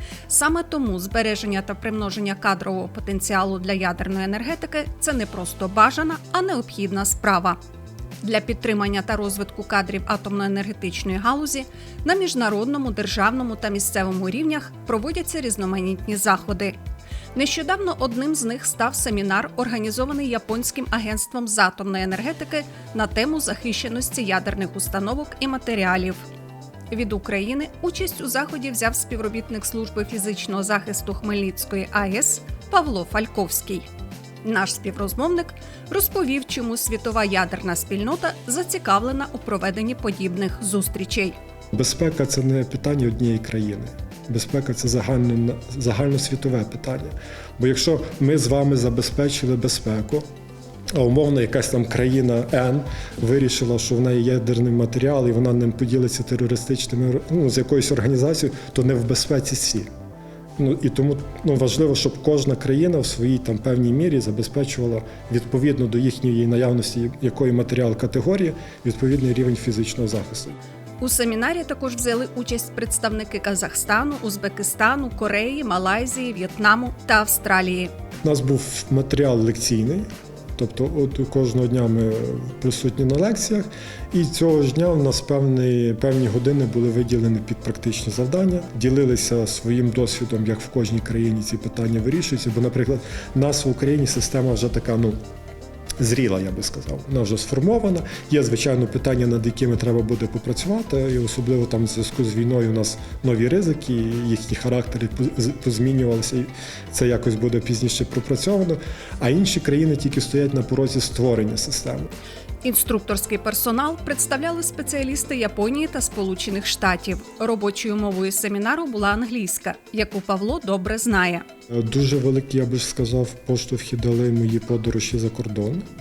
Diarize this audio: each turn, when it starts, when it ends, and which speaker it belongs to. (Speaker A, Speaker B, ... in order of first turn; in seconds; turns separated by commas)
Speaker A: 0.3-7.6, Speaker A: 8.2-16.8, Speaker A: 17.3-26.2, Speaker A: 26.9-33.9, Speaker A: 34.4-41.3, Speaker B: 41.7-50.3, Speaker B: 50.9-59.9, Speaker B: 60.6-70.6, Speaker A: 71.0-77.9, Speaker B: 78.2-95.2, Speaker B: 96.0-112.1, Speaker A: 112.6-121.4, Speaker B: 121.7-125.8